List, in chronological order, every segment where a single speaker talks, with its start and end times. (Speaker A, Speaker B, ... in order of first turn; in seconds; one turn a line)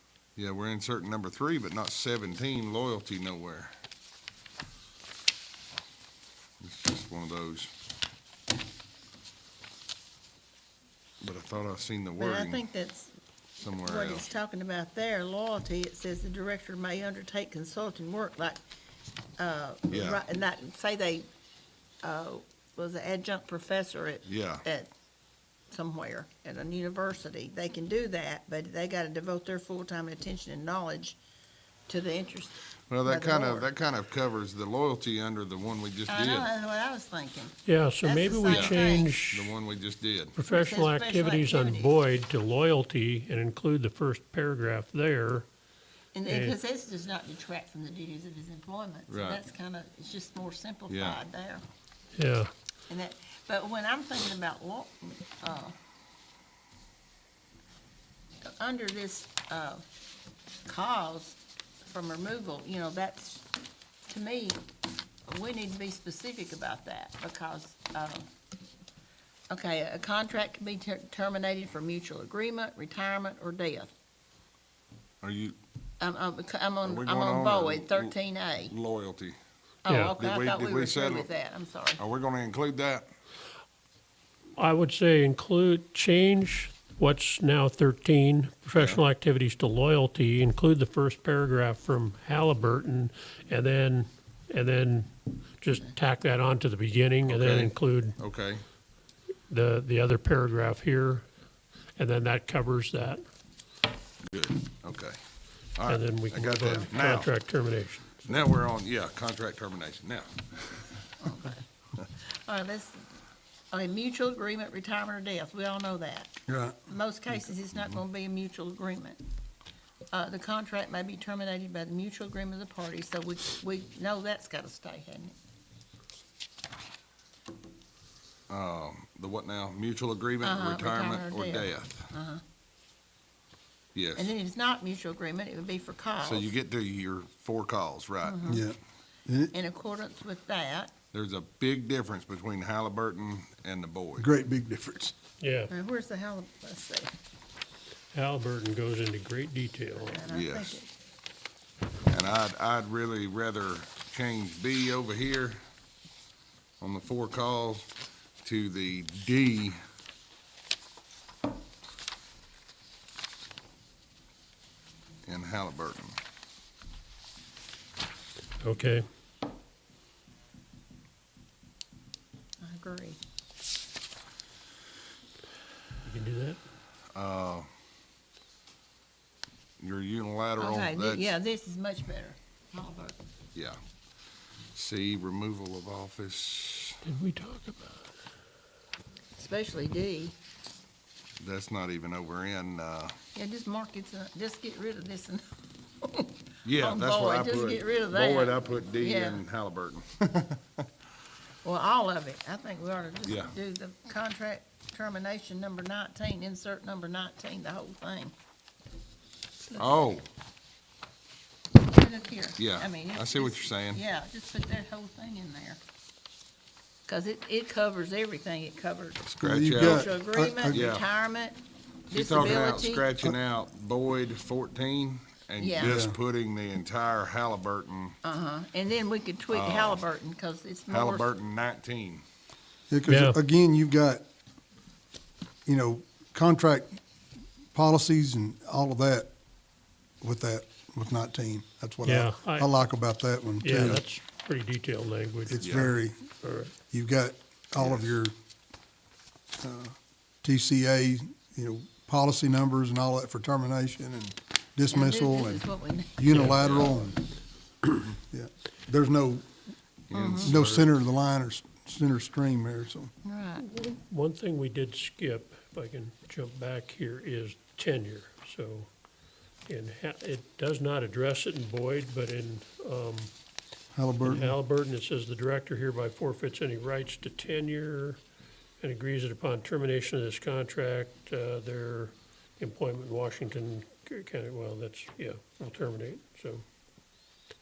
Speaker A: 0.3-3.7
Speaker A: 6.6-7.7
Speaker A: 11.2-12.6
Speaker B: 12.2-13.1
Speaker A: 13.6-14.2
Speaker B: 13.8-18.6
Speaker B: 19.4-21.3
Speaker A: 19.9-20.2
Speaker B: 22.0-24.9
Speaker A: 24.2-24.6
Speaker B: 25.7-31.2
Speaker B: 31.9-33.7
Speaker A: 32.9-36.5
Speaker B: 36.1-39.1
Speaker C: 37.6-39.5
Speaker A: 38.5-38.8
Speaker A: 39.3-40.3
Speaker C: 40.3-45.5
Speaker B: 40.5-42.0
Speaker B: 46.1-51.6
Speaker C: 46.2-46.5
Speaker A: 49.1-49.4
Speaker A: 50.9-51.2
Speaker C: 52.1-52.5
Speaker B: 52.9-55.7
Speaker B: 58.4-59.8
Speaker B: 60.6-63.4
Speaker B: 64.1-64.6
Speaker B: 65.3-68.2
Speaker B: 69.5-73.9
Speaker A: 75.2-75.5
Speaker B: 76.0-78.7
Speaker A: 76.8-78.2
Speaker A: 78.7-79.4
Speaker B: 79.8-82.0
Speaker C: 79.9-80.1
Speaker A: 80.2-81.3
Speaker A: 82.0-83.1
Speaker C: 84.6-98.2
Speaker A: 88.8-89.0
Speaker A: 97.2-98.6
Speaker C: 99.5-101.2
Speaker C: 102.0-103.2
Speaker A: 104.3-105.2
Speaker A: 105.8-107.3
Speaker C: 105.9-108.2
Speaker A: 108.2-110.8
Speaker B: 111.2-111.6
Speaker B: 112.5-113.1
Speaker B: 113.7-116.3
Speaker D: 116.5-116.8
Speaker B: 116.8-119.2
Speaker B: 120.1-125.3
Speaker A: 128.5-132.1
Speaker B: 130.4-132.4
Speaker A: 133.9-134.3
Speaker B: 134.2-136.5
Speaker A: 136.2-138.4
Speaker B: 138.2-138.6
Speaker D: 138.5-139.5
Speaker B: 139.5-140.9
Speaker A: 141.1-144.3
Speaker D: 144.2-145.1
Speaker C: 145.4-145.7
Speaker B: 145.7-147.1
Speaker C: 148.1-150.2
Speaker B: 150.0-150.9
Speaker A: 150.3-150.8
Speaker A: 152.1-155.6
Speaker A: 156.8-157.8
Speaker A: 158.4-159.8
Speaker A: 165.2-166.2
Speaker C: 168.6-169.0
Speaker B: 172.6-173.2
Speaker C: 176.0-176.6
Speaker A: 177.1-177.7
Speaker A: 179.8-181.3
Speaker B: 180.6-183.2
Speaker A: 184.7-187.0
Speaker C: 187.0-188.1
Speaker B: 189.3-190.3
Speaker A: 191.4-193.1
Speaker B: 193.3-195.4
Speaker B: 196.0-199.4
Speaker A: 196.6-200.6
Speaker B: 201.6-208.3
Speaker A: 203.2-203.5
Speaker B: 209.7-210.2
Speaker A: 209.8-210.2
Speaker B: 211.8-215.8
Speaker A: 212.6-214.0
Speaker B: 217.1-221.6
Speaker A: 219.2-220.1
Speaker D: 219.4-220.8
Speaker A: 220.7-221.0
Speaker B: 222.1-223.1
Speaker A: 222.1-228.2
Speaker B: 225.6-226.0
Speaker D: 225.8-226.2
Speaker B: 228.2-231.3
Speaker A: 229.5-230.0
Speaker A: 230.9-232.2
Speaker D: 232.9-234.2
Speaker C: 233.1-233.4
Speaker D: 235.7-237.0
Speaker D: 237.7-239.3
Speaker D: 240.2-244.0
Speaker C: 242.0-242.7
Speaker C: 243.6-246.7
Speaker D: 245.4-246.2
Speaker A: 245.6-245.9
Speaker D: 246.9-248.3
Speaker A: 247.8-248.1
Speaker D: 249.6-257.1
Speaker B: 254.9-256.4
Speaker C: 256.3-256.9
Speaker D: 257.8-259.5
Speaker A: 260.1-260.9
Speaker B: 260.1-260.6
Speaker D: 260.4-263.1
Speaker B: 263.2-263.6
Speaker C: 263.6-268.9
Speaker C: 269.7-273.3
Speaker D: 273.9-274.6
Speaker C: 274.2-278.2
Speaker C: 278.8-286.6